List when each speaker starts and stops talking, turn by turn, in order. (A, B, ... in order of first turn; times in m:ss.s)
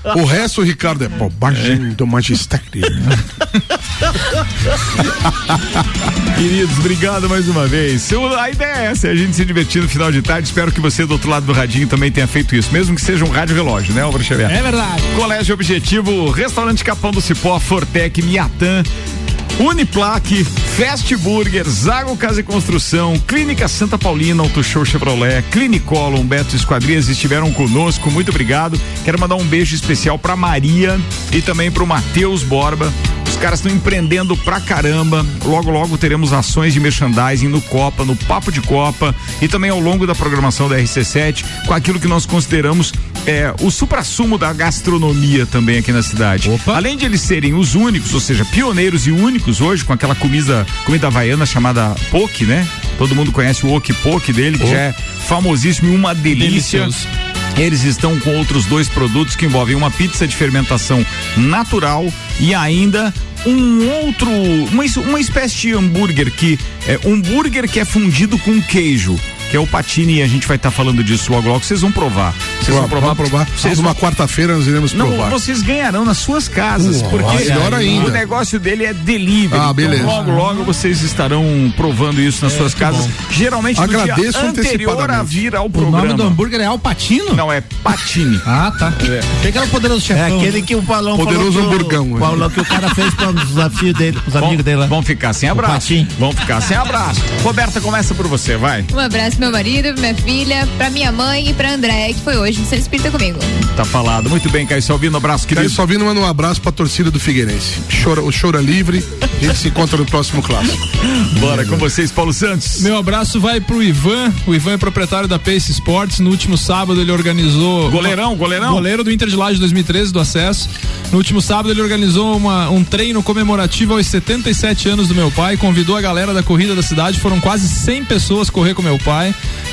0:00.1-0:03.1 A
0:06.3-0:18.9 B
0:14.4-0:15.1 C
0:19.6-0:57.0 B
0:46.4-0:46.8 C
0:56.3-0:57.1 D
0:57.6-1:14.0 B
1:12.6-1:15.4 A
1:14.9-1:26.4 B
1:16.8-1:18.2 A
1:17.1-1:18.1 C
1:19.5-1:20.2 A
1:19.9-1:20.5 C
1:22.5-1:23.1 C
1:23.8-1:25.4 A
1:25.7-1:27.4 C
1:27.3-1:28.4 B
1:28.4-1:30.6 C
1:29.0-1:29.3 B
1:30.1-1:34.9 E
1:31.1-1:32.5 A
1:34.4-1:38.9 B
1:35.5-1:36.1 E
1:38.9-1:43.5 F
1:43.7-1:45.8 B
1:45.5-1:50.8 A
1:51.0-1:52.9 B
1:52.8-2:09.3 D
1:57.9-1:58.9 B